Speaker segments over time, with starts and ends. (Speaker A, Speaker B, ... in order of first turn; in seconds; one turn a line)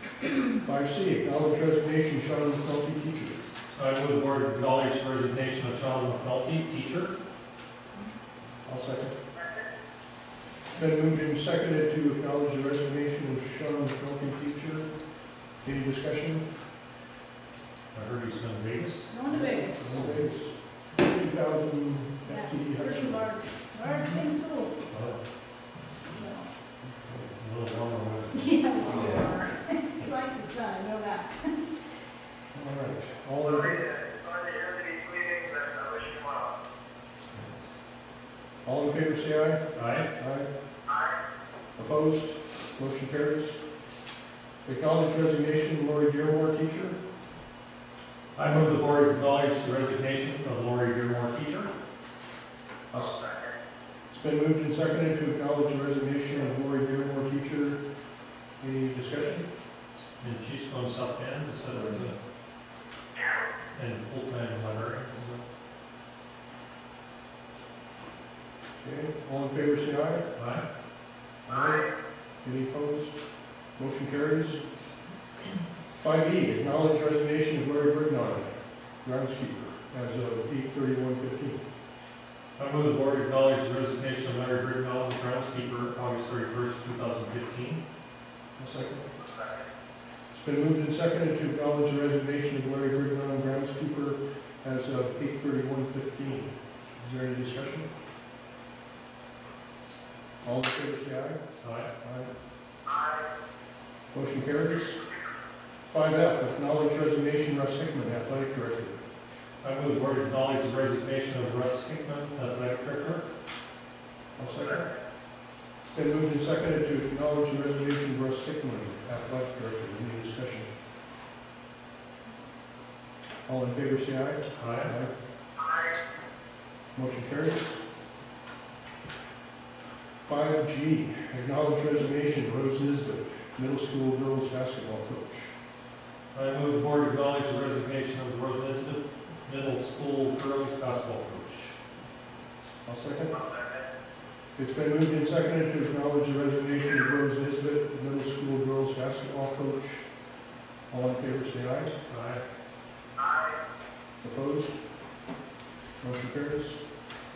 Speaker A: 0.6-3.4
Speaker B: 3.7-7.1
Speaker A: 8.6-9.2
Speaker C: 9.3-9.7
Speaker A: 10.7-14.9
Speaker A: 15.6-16.4
Speaker B: 17.9-19.1
Speaker D: 19.1-19.9
Speaker A: 19.3-23.3
Speaker D: 22.2-24.8
Speaker B: 24.9-25.2
Speaker D: 26.1-26.5
Speaker A: 26.8-27.3
Speaker B: 27.4-29.3
Speaker D: 28.4-31.6
Speaker A: 32.5-33.8
Speaker C: 33.4-36.5
Speaker B: 37.3-37.6
Speaker A: 38.6-39.6
Speaker B: 39.7-40.1
Speaker A: 40.1-40.5
Speaker C: 40.9-41.2
Speaker A: 41.8-43.6
Speaker A: 44.6-47.0
Speaker B: 48.4-51.7
Speaker C: 52.9-53.5
Speaker A: 54.1-57.8
Speaker A: 58.6-59.5
Speaker B: 60.2-62.2
Speaker B: 63.7-65.4
Speaker A: 68.8-70.2
Speaker B: 70.3-70.6
Speaker A: 71.5-71.9
Speaker C: 71.5-71.9
Speaker A: 72.4-73.2
Speaker A: 73.8-74.6
Speaker A: 76.0-81.6
Speaker B: 82.6-87.8
Speaker A: 88.6-89.0
Speaker C: 89.2-89.6
Speaker A: 90.3-97.9
Speaker A: 100.4-101.4
Speaker B: 101.6-101.9
Speaker A: 102.0-102.3
Speaker C: 102.8-103.3
Speaker A: 104.1-105.0
Speaker A: 105.9-109.0
Speaker B: 109.6-113.2
Speaker A: 114.4-114.9
Speaker C: 114.4-114.9
Speaker A: 115.9-120.7
Speaker A: 123.5-125.1
Speaker B: 124.5-124.9
Speaker C: 125.6-126.0
Speaker A: 126.9-127.8
Speaker A: 130.2-135.5
Speaker B: 136.3-141.8
Speaker A: 142.8-143.3
Speaker C: 143.3-143.9
Speaker A: 144.6-150.1
Speaker A: 150.9-151.9
Speaker B: 152.1-152.4
Speaker C: 153.2-153.6
Speaker A: 154.2-154.7
Speaker A: 156.0-156.8